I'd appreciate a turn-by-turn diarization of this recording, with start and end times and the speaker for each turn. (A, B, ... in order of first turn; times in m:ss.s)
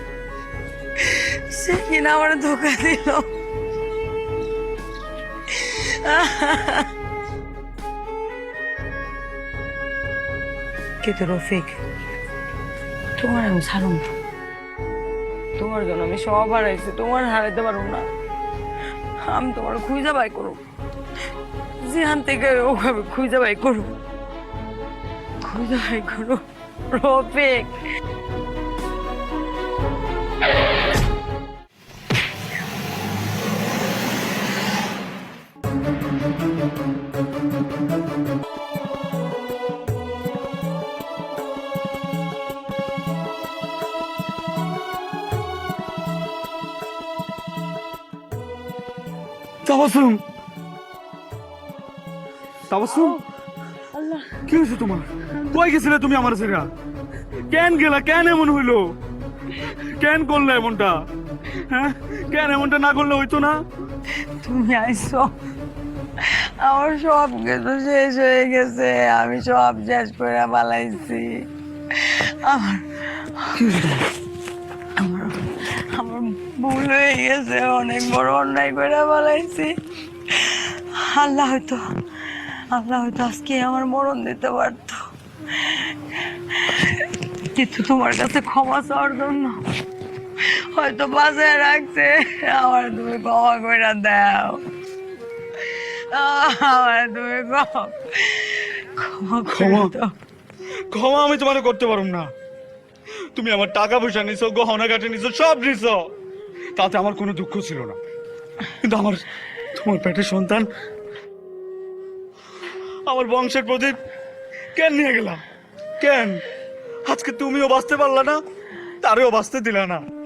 0:01.0-0:03.3 A
0:05.5-0:06.9 A
0:11.0-0:11.8 A
0:13.2-0:14.1 A
0:15.6-0:18.1 A
0:19.2-0:20.6 A
0:21.8-0:23.9 A
0:25.4-0:27.8 A
0:49.6-0:50.2 B
0:52.7-0:53.2 B
0:52.9-0:53.2 A
0:53.9-0:54.4 A
0:54.4-0:56.7 B
0:57.5-0:58.9 B
0:59.8-1:01.0 B
1:01.5-1:03.6 B
1:04.2-1:05.3 A
1:06.2-1:14.1 A
1:15.0-1:19.8 A
1:20.3-1:29.6 A
1:30.5-1:34.6 A
1:35.6-1:40.1 A
1:39.5-1:39.9 B
1:40.9-1:42.3 B
1:43.3-1:46.1 B
1:46.8-1:48.0 B
1:48.8-1:50.7 B
1:53.1-1:54.0 B
1:54.7-1:55.4 B
1:56.0-1:56.4 B
1:57.0-1:58.4 B
1:59.0-2:00.0 B